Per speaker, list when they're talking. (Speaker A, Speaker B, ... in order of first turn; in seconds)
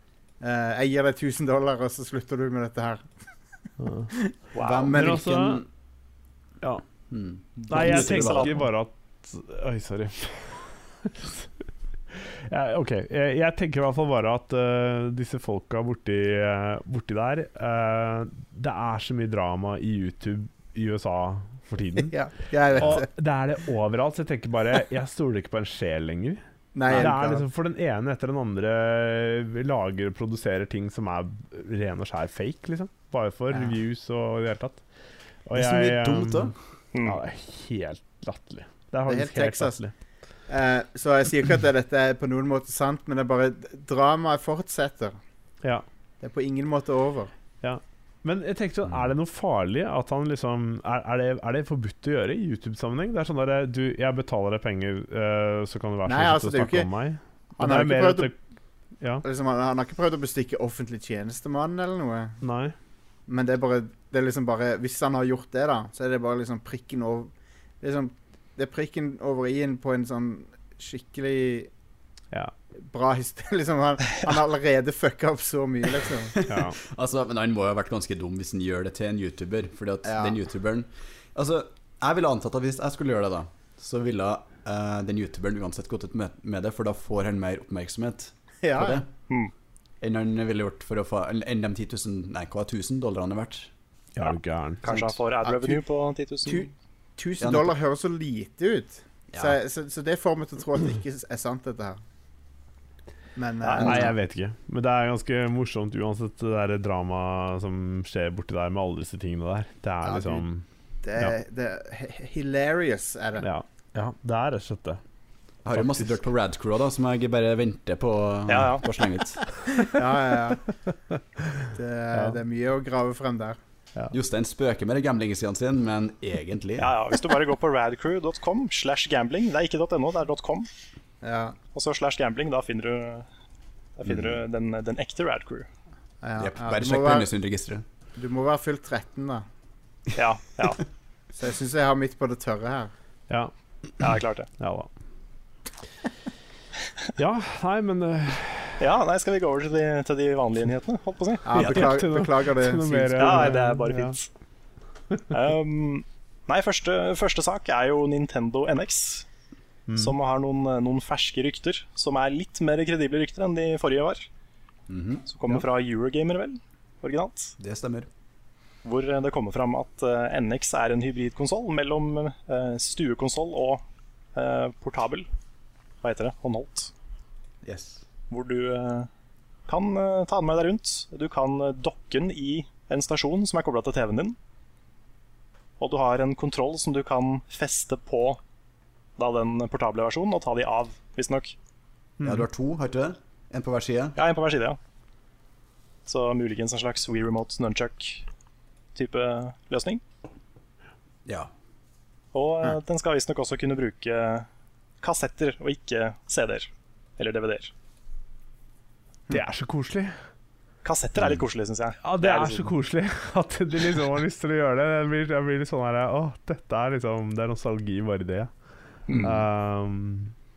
Speaker A: 0.4-3.1, 22.1-23.1, 26.7-27.5, 33.5-33.8, 39.1-39.8, 40.5-45.2, 46.2-47.3, 56.1-56.9, 57.6-58.3, 59.2-62.4, 63.3-71.7, 72.8-76.4, 80.0-80.4, 88.6-89.0, 94.9-95.8, 96.5-102.0, 103.4-104.1, 110.0-110.4, 111.0-113.5, 119.8-120.7, 121.7-123.6, 131.2-131.6, 136.2-137.3, 138.2-139.4, 141.4-142.9, 151.4-153.6
Speaker B: 3.8-4.1, 4.9-5.6, 7.7-11.5, 12.1-22.1, 22.7-34.8, 35.5-39.9, 47.6-58.4, 62.4-62.8, 76.5-76.8, 94.2-94.9, 103.8-110.6, 113.4-115.0, 115.7-116.1, 144.6-144.9, 147.2-148.8, 151.6-154.2, 159.9-160.1, 209.3-210.2, 212.0-218.5, 219.2-220.3
Speaker C: 4.5-4.9, 7.6-8.7, 36.9-37.2, 94.8-96.7, 103.6-104.0, 118.5-118.8, 126.8-130.7, 131.8-133.3, 134.0-135.7, 140.2-140.8, 144.0-144.5, 148.8-151.8, 153.2-154.3, 155.3-159.3, 160.0-164.3, 165.3-167.6, 168.8-173.8, 174.3-175.3, 176.0-176.9, 178.3-179.1, 179.7-184.4, 185.8-188.4, 189.2-191.5, 194.2-194.8, 196.1-198.3, 198.9-200.0, 202.3-204.5, 205.0-207.7, 210.8-212.7, 219.1-219.3
Speaker D: 4.6-5.7, 7.1-8.6, 35.5-36.6, 76.3-89.1, 90.0-93.7, 97.4-97.7, 99.3-99.6, 103.8-104.1, 115.6-119.6, 124.1-127.0, 134.1-134.4, 136.4-137.8, 164.9-165.3, 167.6-168.1, 177.6-178.0, 192.2-194.2, 201.3-201.5, 219.1-219.4